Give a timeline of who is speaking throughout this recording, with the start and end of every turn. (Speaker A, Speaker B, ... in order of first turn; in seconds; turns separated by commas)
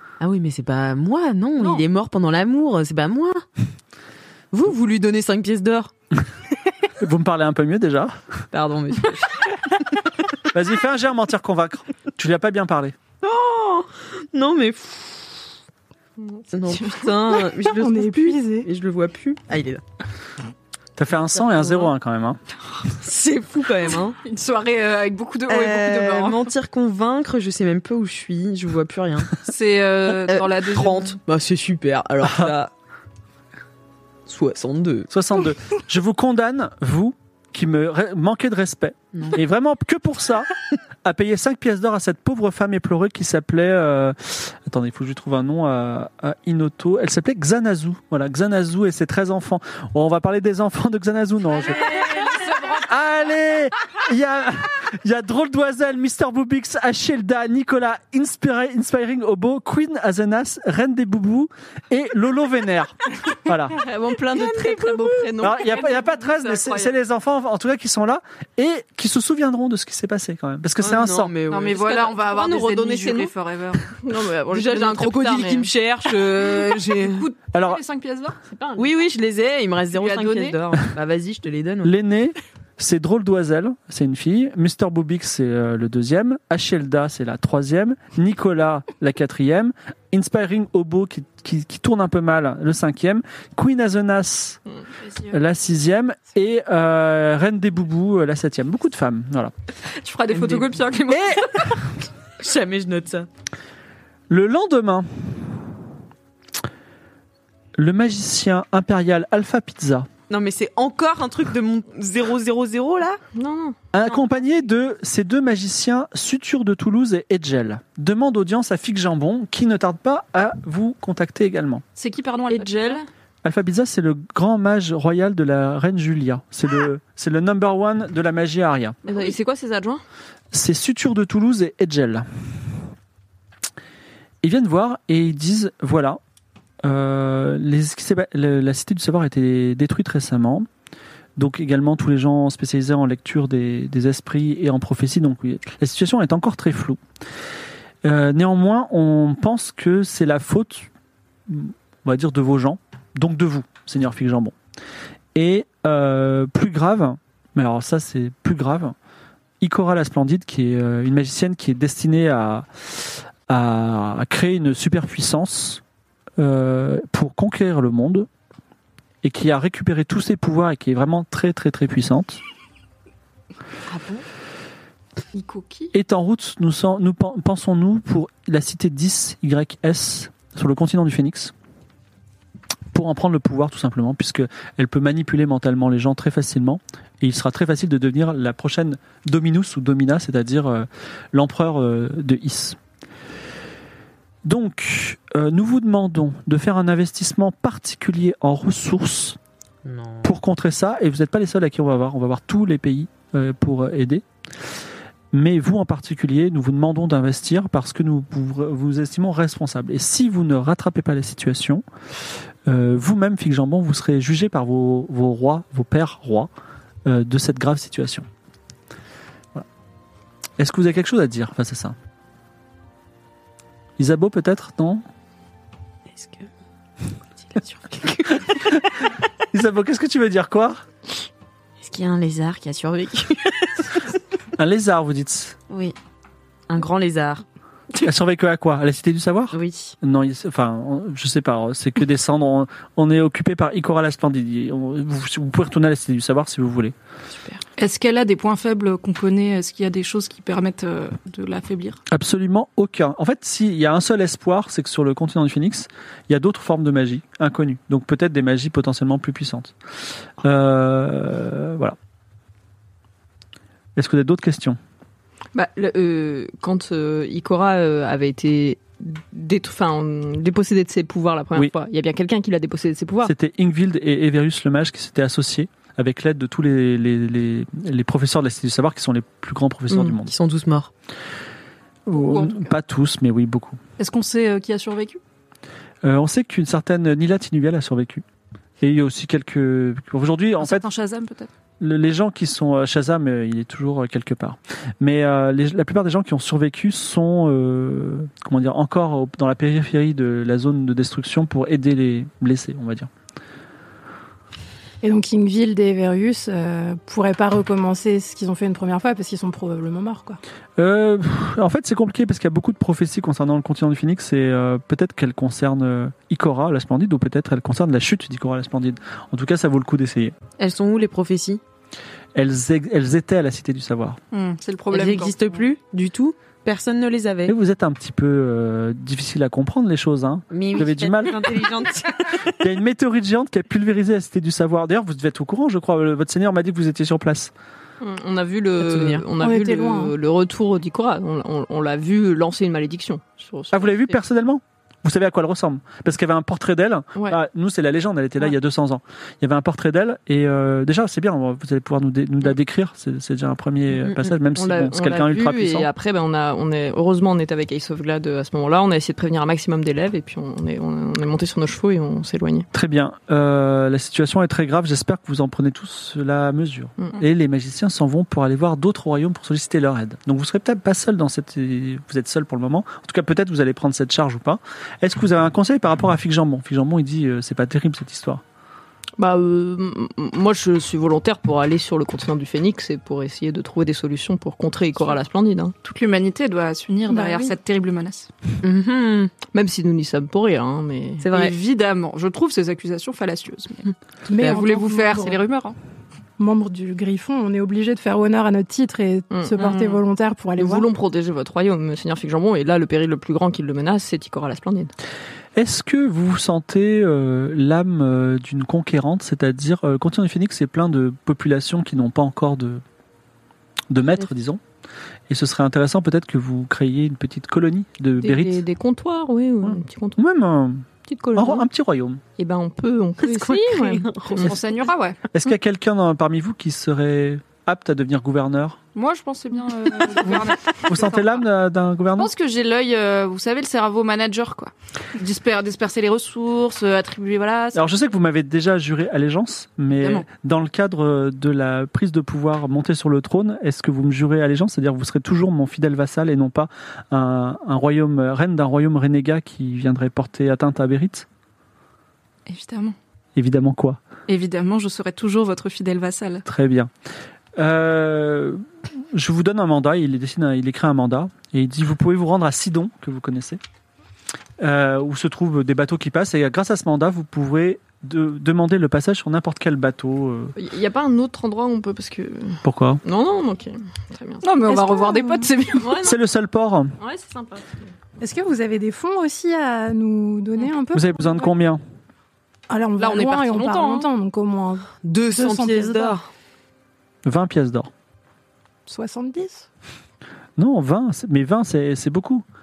Speaker A: 0.2-3.4, Speaker A: 4.5-5.9, Speaker B: 7.0-8.2, Speaker A: 8.5-10.0, Speaker B: 10.5-13.0, Speaker A: 13.2-15.4, Speaker A: 16.5-19.8, Speaker C: 17.6-18.7, Speaker B: 21.0-22.4, Speaker A: 21.4-21.9, Speaker A: 22.9-24.2, Speaker D: 24.2-26.5, Speaker A: 25.5-29.4, Speaker D: 29.4-31.2, Speaker A: 30.3-32.7, Speaker B: 32.2-32.5, Speaker A: 34.3-35.1, Speaker B: 35.1-40.5, Speaker A: 39.1-39.4, Speaker B: 41.0-51.8, Speaker D: 51.6-53.0, Speaker B: 52.8-63.8, Speaker E: 63.7-66.9, Speaker A: 64.3-65.3, Speaker B: 65.4-71.3, Speaker A: 70.8-73.3, Speaker D: 71.5-73.8, Speaker E: 72.3-73.2, Speaker E: 74.0-75.7, Speaker A: 74.5-77.3, Speaker D: 76.8-78.4, Speaker B: 77.5-77.8, Speaker E: 78.5-78.9, Speaker A: 78.8-81.9, Speaker D: 79.9-80.6, Speaker B: 81.8-94.6, Speaker B: 95.3-99.5, Speaker D: 100.0-101.8, Speaker A: 100.3-100.8, Speaker B: 101.1-101.5, Speaker A: 102.4-103.3, Speaker B: 104.3-105.6, Speaker B: 107.8-110.1, Speaker A: 110.3-113.2, Speaker E: 113.3-113.8, Speaker B: 113.9-121.8, Speaker D: 122.0-123.0, Speaker E: 122.5-123.0, Speaker B: 123.4-129.0, Speaker E: 129.1-130.0, Speaker B: 130.5-132.3, Speaker B: 134.4-136.2, Speaker B: 136.8-140.7, Speaker B: 141.4-147.0, Speaker B: 148.0-150.9, Speaker B: 151.5-154.6, Speaker B: 155.3-158.9, Speaker B: 159.6-165.8, Speaker B: 166.4-168.3, Speaker B: 169.2-172.4, Speaker A: 173.9-174.2, Speaker D: 175.3-175.9, Speaker B: 175.9-181.5, Speaker B: 182.9-192.8, Speaker B: 194.4-199.4, Speaker A: 199.8-200.3, Speaker B: 200.2-204.2, Speaker B: 205.3-211.8, Speaker B: 212.7-216.5, Speaker B: 217.1-218.3, Speaker B: 220.6-222.0, Speaker B: 224.0-225.1, Speaker A: 226.1-226.5, Speaker A: 227.4-229.1, Speaker B: 229.5-230.8, Speaker A: 231.8-234.1, Speaker B: 234.6-235.6, Speaker A: 235.7-235.9, Speaker A: 236.7-237.4, Speaker B: 238.0-246.9, Speaker A: 239.5-240.0, Speaker A: 247.3-247.6, Speaker D: 247.8-252.0, Speaker B: 252.1-259.7, Speaker B: 260.4-262.0, Speaker B: 264.0-264.8, Speaker E: 265.5-273.3, Speaker B: 273.2-280.3, Speaker A: 279.9-280.9, Speaker B: 282.1-283.8, Speaker D: 282.1-282.7, Speaker D: 284.0-285.2, Speaker B: 286.0-288.2, Speaker B: 288.8-290.8, Speaker D: 290.6-291.5, Speaker B: 291.8-303.1, Speaker C: 305.0-310.4, Speaker B: 310.8-320.4, Speaker A: 320.6-321.6, Speaker B: 322.4-324.2, Speaker D: 324.3-325.6, Speaker A: 324.9-327.6, Speaker B: 327.5-331.6, Speaker A: 330.5-332.6, Speaker B: 332.5-337.5, Speaker E: 338.0-344.2, Speaker A: 338.8-339.2, Speaker C: 339.4-340.1, Speaker B: 343.7-355.9, Speaker E: 354.5-362.7, Speaker B: 362.7-378.4, Speaker E: 379.2-385.8, Speaker D: 385.8-388.3, Speaker C: 387.1-387.6, Speaker A: 388.6-389.3, Speaker E: 389.5-391.3, Speaker A: 391.2-391.5, Speaker D: 391.3-393.9, Speaker C: 394.3-395.4, Speaker D: 394.4-395.8, Speaker C: 396.4-400.9, Speaker E: 399.3-399.9, Speaker E: 400.6-404.9, Speaker B: 405.6-412.8, Speaker B: 413.9-414.6, Speaker B: 415.3-418.6, Speaker E: 418.2-420.2, Speaker B: 419.6-422.2, Speaker E: 421.1-421.6, Speaker E: 422.4-424.6, Speaker A: 423.2-424.6, Speaker D: 424.4-425.3, Speaker B: 425.3-428.8, Speaker D: 428.9-431.4, Speaker B: 430.9-432.3, Speaker D: 432.2-437.9, Speaker B: 437.7-451.3, Speaker D: 440.0-440.3, Speaker D: 452.5-453.0, Speaker B: 453.4-454.0, Speaker D: 454.3-456.4, Speaker B: 456.5-456.9, Speaker B: 457.6-463.6, Speaker B: 464.6-470.6, Speaker E: 470.6-474.5, Speaker B: 472.6-473.0, Speaker D: 474.4-476.0, Speaker C: 474.7-475.5, Speaker E: 475.8-476.2, Speaker B: 476.0-476.9, Speaker E: 477.0-477.9, Speaker C: 478.2-481.5, Speaker B: 480.9-481.8, Speaker C: 482.7-486.2, Speaker D: 483.0-484.1, Speaker A: 485.0-486.3, Speaker B: 487.2-487.9, Speaker C: 488.9-489.7, Speaker B: 490.6-492.4